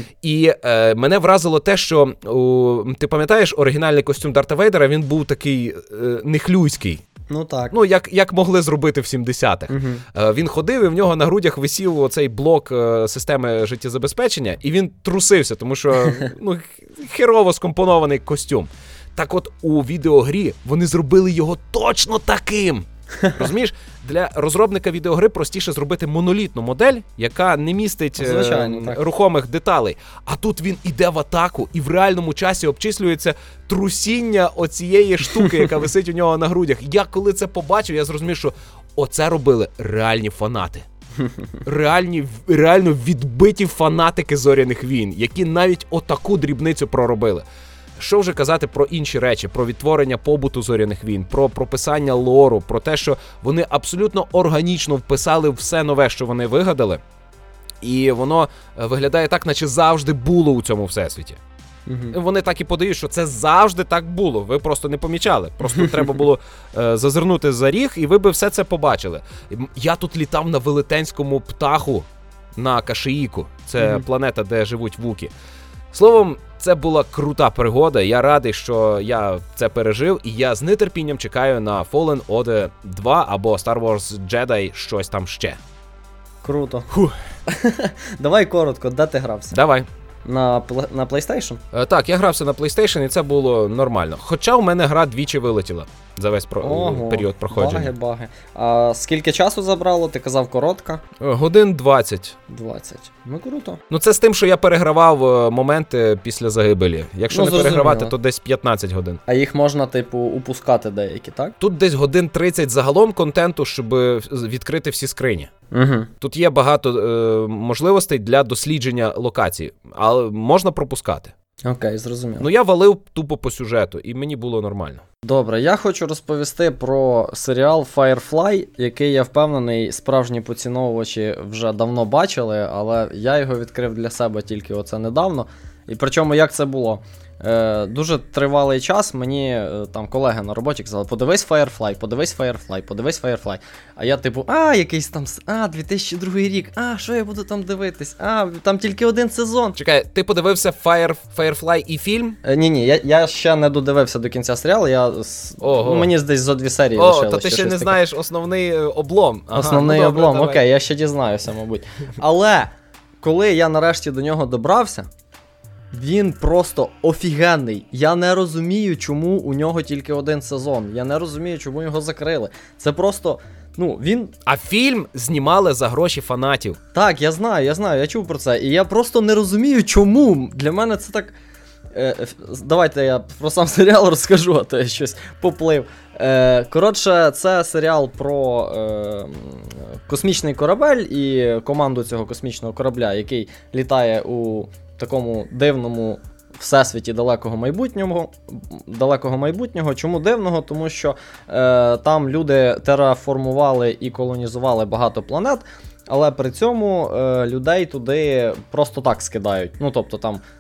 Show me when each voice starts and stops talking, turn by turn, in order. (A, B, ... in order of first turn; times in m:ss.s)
0:00.2-0:07.0 A
0:07.3-0:07.7 B
0:07.7-0:40.8 A
0:09.7-0:10.0 B
0:28.2-0:29.0 B
0:41.6-0:47.4 A
0:48.0-0:57.0 A
0:57.8-1:01.4 A
1:01.9-1:02.1 B
1:02.1-1:15.3 A
1:15.9-1:25.6 A
1:26.4-1:26.9 B
1:27.4-1:29.6 B
1:29.5-1:29.9 A
1:30.2-1:31.6 B
1:31.7-1:37.9 A
1:36.6-1:41.0 B
1:41.2-1:42.4 A
1:42.5-1:43.8 B
1:43.9-1:49.2 A
1:47.3-1:48.1 B
1:49.3-1:51.5 B
1:51.6-1:55.5 A
1:55.7-1:56.1 B
1:56.2-2:01.3 A
2:01.6-2:02.4 B
2:02.4-2:05.0 A
2:05.2-2:29.8 B
2:29.8-2:32.4 A
2:32.4-2:38.0 B
2:35.6-2:36.1 A
2:37.0-2:40.6 A
2:39.5-2:45.1 B
2:45.9-2:54.3 B
2:54.4-2:56.8 A
2:56.9-3:01.4 B
3:01.9-3:30.4 B